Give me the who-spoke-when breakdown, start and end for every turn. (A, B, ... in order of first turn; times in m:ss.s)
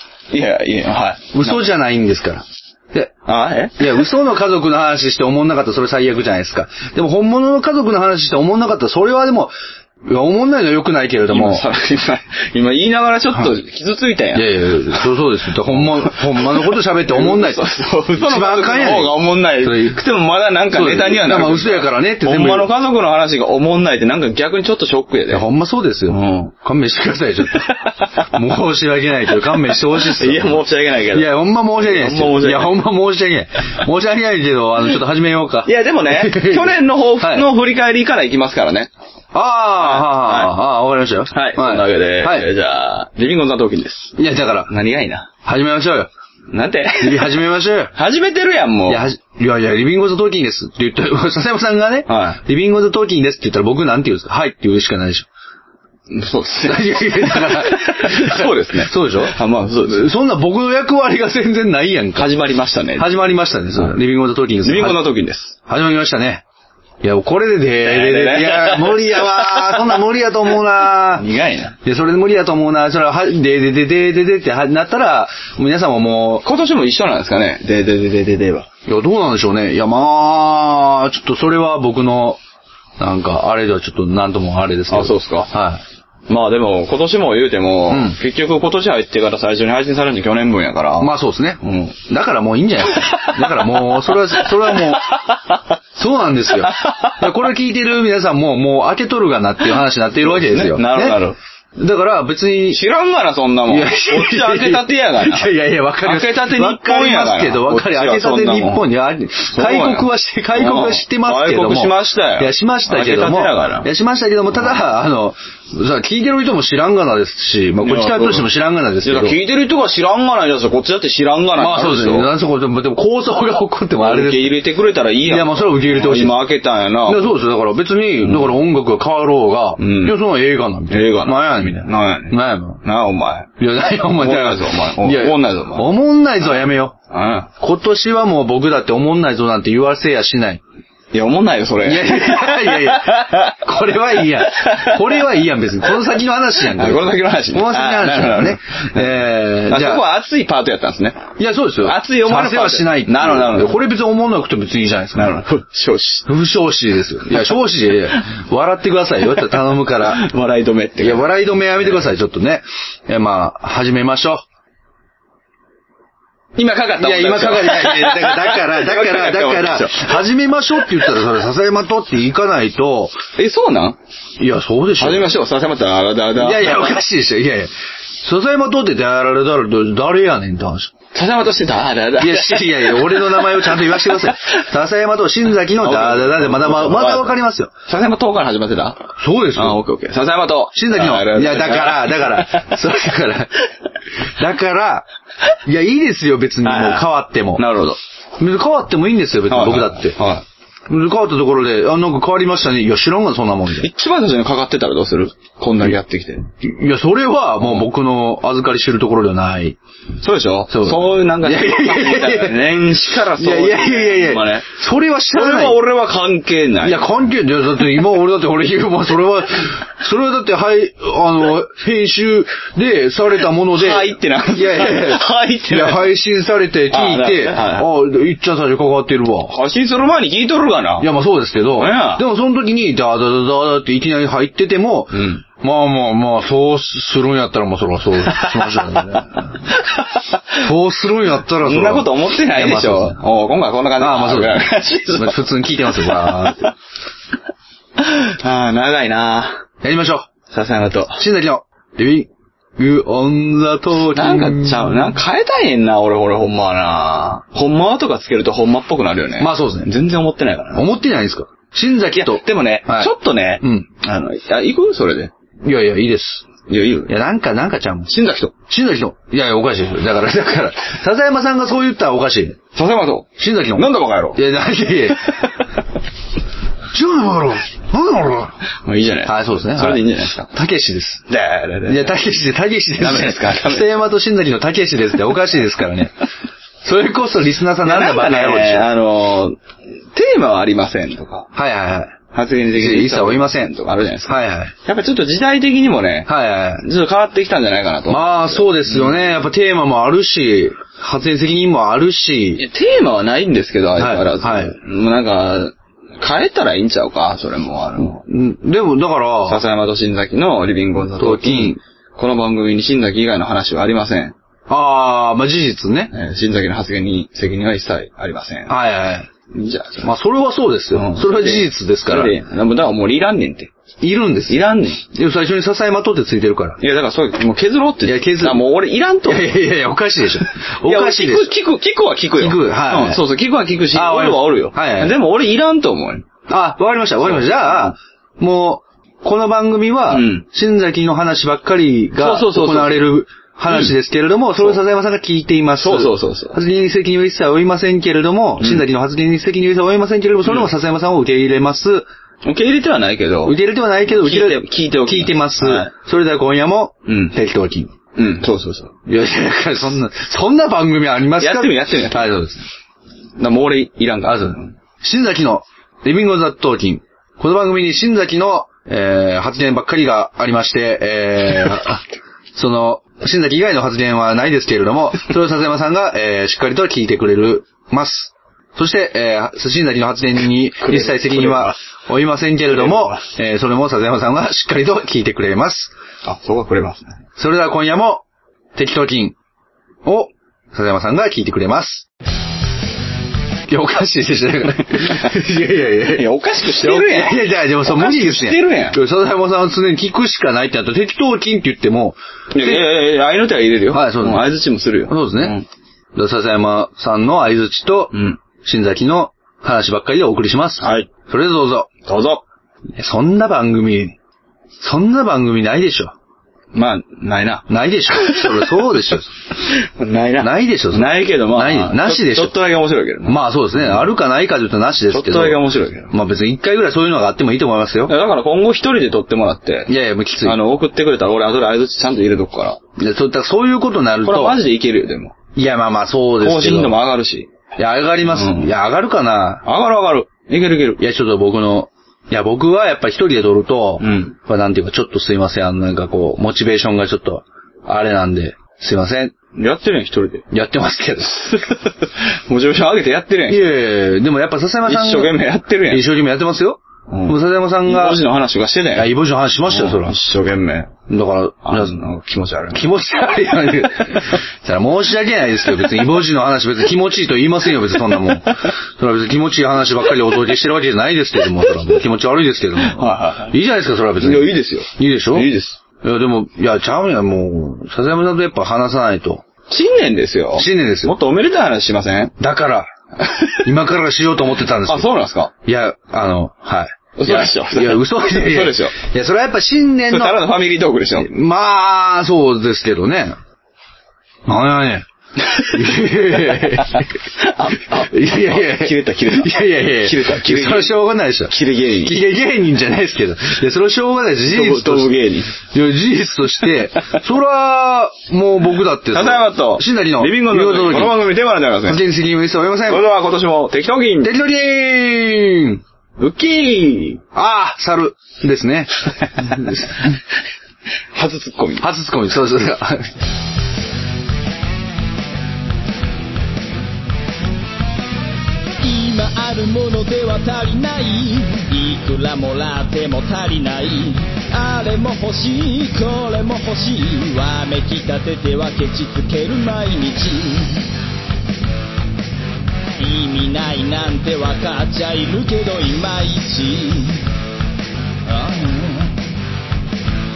0:00.3-0:01.7 A
0:01.3-0:03.1 B
0:03.3-0:04.1 A
0:03.8-0:09.5 B
0:10.0-0:11.6 B
0:11.3-0:25.4 A
0:14.3-0:17.6 B
0:18.2-0:20.0 B
0:20.7-0:22.7 B
0:25.3-0:27.7 B
0:26.1-0:26.5 A
0:27.6-0:28.4 A
0:28.2-0:30.6 B
0:29.8-0:32.8 A
0:31.1-0:37.5 B
0:35.6-0:38.9 A
0:39.3-0:42.5 B
0:39.8-0:40.6 A
0:41.3-0:45.3 A
0:44.2-0:44.7 B
0:45.4-0:46.1 B
0:46.5-0:47.4 A
0:47.0-0:48.0 B
0:48.0-0:49.1 A
0:48.9-0:55.3 B
0:52.1-0:52.4 A
0:56.1-1:00.1 A
0:56.7-1:02.3 B
1:02.2-1:03.1 A
1:03.0-1:05.0 B
1:04.6-1:05.6 A
1:05.7-1:06.4 B
1:07.0-1:11.3 B
1:07.8-1:10.0 A
1:11.1-1:11.8 A
1:11.8-1:16.4 B
1:16.4-1:18.7 A
1:18.9-1:22.4 B
1:23.0-1:25.8 B
1:24.9-1:25.5 A
1:26.3-1:32.0 A
1:27.9-1:28.2 B
1:31.0-1:35.1 B
1:33.0-1:35.8 A
1:36.0-1:41.2 B
1:36.5-1:37.3 A
1:40.2-1:41.4 A
1:41.8-1:42.8 B
1:42.7-1:48.9 A
1:43.7-1:59.4 B
1:49.5-1:53.9 A
1:57.8-1:58.5 A
1:59.0-2:02.3 A
2:01.6-2:04.6 B
2:04.0-2:07.4 A
2:05.2-2:06.4 B
2:07.0-2:12.8 B
2:08.2-2:08.6 A
2:09.8-2:10.2 A
2:10.9-2:15.9 A
2:13.6-2:17.0 B
2:17.1-2:17.5 A
2:17.6-2:20.6 B
2:21.1-2:23.6 A
2:21.8-2:30.0 B
2:24.4-2:26.0 A
2:26.6-2:31.3 A
2:31.4-2:35.4 B
2:31.8-2:33.8 A
2:35.2-2:36.3 A
2:36.3-2:40.3 B
2:39.8-2:41.3 A
2:41.0-2:44.4 B
2:46.6-2:50.2 A
2:47.0-2:53.2 B
2:53.4-2:54.0 A
2:54.4-2:55.3 B
2:55.0-2:57.0 A
2:56.4-3:00.9 B
3:01.1-3:04.6 A
3:02.2-3:07.7 B
3:05.8-3:12.7 A
3:09.2-3:09.8 B
3:10.8-3:13.5 B
3:14.4-3:15.0 B
3:15.7-3:17.6 B
3:16.6-3:18.0 A
3:18.4-3:20.2 B
3:19.5-3:20.4 A
3:20.9-3:23.9 B
3:23.8-3:26.5 A
3:26.6-3:29.8 B
3:30.2-3:34.7 A
3:30.7-3:32.6 B
3:33.3-3:35.8 B
3:35.3-3:37.1 A
3:36.8-3:49.6 B
3:43.7-3:46.1 A
3:46.9-3:47.9 A
3:49.5-3:51.1 A
3:51.0-3:59.7 B
3:51.8-3:52.2 A
3:55.1-3:55.4 A
3:58.3-4:00.7 A
4:00.6-4:03.2 B
4:01.6-4:06.7 A
4:04.0-4:06.7 B
4:08.0-4:09.6 A
4:09.8-4:10.3 B
4:10.5-4:11.2 A
4:11.2-4:15.2 B
4:14.0-4:20.9 A
4:19.4-4:19.9 B
4:20.7-4:23.9 B
4:22.1-4:25.3 A
4:25.6-4:26.4 B
4:26.7-4:27.1 A
4:27.1-4:28.1 B
4:28.1-4:28.5 A
4:28.7-4:32.6 B
4:32.7-4:34.4 A
4:33.4-4:35.5 B
4:36.9-4:38.6 B
4:38.8-4:40.5 A
4:39.3-4:41.2 B
4:41.3-4:42.2 A
4:41.9-4:46.1 B
4:43.0-4:44.0 A
4:46.8-4:48.9 B
4:47.8-4:49.6 A
4:50.1-4:51.5 A
4:51.6-4:52.2 B
4:52.3-4:59.4 A
4:52.8-4:53.7 B
4:54.3-4:54.7 B
4:56.3-4:56.8 B
4:58.1-5:02.6 B
5:02.6-5:08.2 A
5:04.0-5:04.7 B
5:08.2-5:09.6 B
5:09.5-5:14.4 A
5:11.2-5:11.8 B
5:14.7-5:16.1 B
5:16.1-5:18.8 A
5:18.7-5:19.3 B
5:19.5-5:20.1 A
5:20.0-5:22.4 B
5:20.9-5:23.7 A
5:24.0-5:26.8 B
5:24.5-5:25.0 A
5:26.8-5:29.6 A
5:28.1-5:28.6 B
5:29.3-5:31.6 B
5:30.8-5:36.3 A
5:32.4-5:33.2 B
5:33.9-5:35.2 B
5:36.5-5:52.1 B
5:37.2-5:37.9 A
5:40.1-5:40.4 A
5:42.2-5:43.1 A
5:43.7-5:44.0 A
5:45.8-5:46.6 A
5:48.6-5:48.8 A
5:52.4-5:53.6 A
5:53.4-5:57.9 B
5:54.1-5:55.9 A
5:57.1-5:57.4 A
5:58.2-5:59.0 A
5:59.1-6:02.7 B
6:01.4-6:02.3 A
6:03.4-6:04.8 A
6:04.2-6:12.0 B
6:12.6-6:25.9 B
6:20.8-6:21.8 A
6:22.7-6:23.3 A
6:26.2-6:27.2 A
6:27.4-6:28.2 B
6:28.8-6:29.4 B
6:30.0-6:32.1 B
6:33.7-6:42.9 B
6:35.0-6:35.3 A
6:36.0-6:39.0 A
6:42.5-6:45.6 A
6:43.9-6:44.5 B
6:45.1-6:45.5 B
6:46.2-6:51.9 B
6:48.1-6:48.4 A
6:50.8-6:51.1 A
6:52.1-6:52.4 A
6:53.0-6:54.2 B
6:54.8-6:56.1 B
6:56.7-7:04.1 A
6:57.7-6:59.3 B
7:00.4-7:02.5 B
7:03.3-7:08.1 B
7:05.1-7:06.1 A
7:08.1-7:09.9 A
7:09.9-7:10.6 B
7:10.4-7:12.8 A
7:13.0-7:14.6 B
7:14.2-7:15.4 A
7:15.6-7:17.0 B
7:16.4-7:17.5 A
7:17.8-7:19.6 B
7:18.3-7:18.7 A
7:19.6-7:21.0 A
7:21.0-7:29.3 B
7:24.0-7:24.4 A
7:29.5-7:30.5 A
7:30.5-7:31.5 B
7:31.4-7:33.6 A
7:33.5-7:35.3 B
7:34.8-7:36.1 A
7:35.9-7:38.2 B
7:37.1-7:39.2 A
7:39.0-7:40.2 B
7:39.7-7:40.9 A
7:41.1-7:42.0 B
7:41.6-7:42.9 A
7:42.7-7:55.5 B
7:48.1-7:48.5 A
7:52.8-7:53.6 A
7:54.2-7:55.8 A
7:56.0-7:59.4 B
7:59.7-8:02.4 A
8:00.6-8:01.1 B
8:02.4-8:02.9 B
8:03.2-8:03.6 A
8:03.6-8:05.1 B
8:04.8-8:05.5 A
8:05.6-8:10.4 B
8:07.2-8:08.9 A
8:10.1-8:11.3 A
8:11.2-8:13.4 B
8:14.5-8:15.0 B
8:15.4-8:21.0 A
8:15.7-8:17.1 B
8:17.9-8:31.3 B
8:21.5-8:22.2 A
8:24.5-8:25.6 A
8:29.1-8:32.0 A
8:31.8-8:33.0 B
8:32.9-8:34.4 A
8:34.2-8:35.8 B
8:36.2-8:37.2 A
8:37.3-8:40.2 B
8:39.3-8:39.7 A
8:41.1-8:41.9 A
8:41.8-8:43.1 B
8:48.9-8:57.2 A
8:49.1-8:53.2 C
8:54.8-8:55.3 C
8:56.2-9:00.8 C
8:57.8-9:00.5 A
9:03.2-9:07.1 C
9:04.0-9:05.2 A
9:08.3-9:09.1 A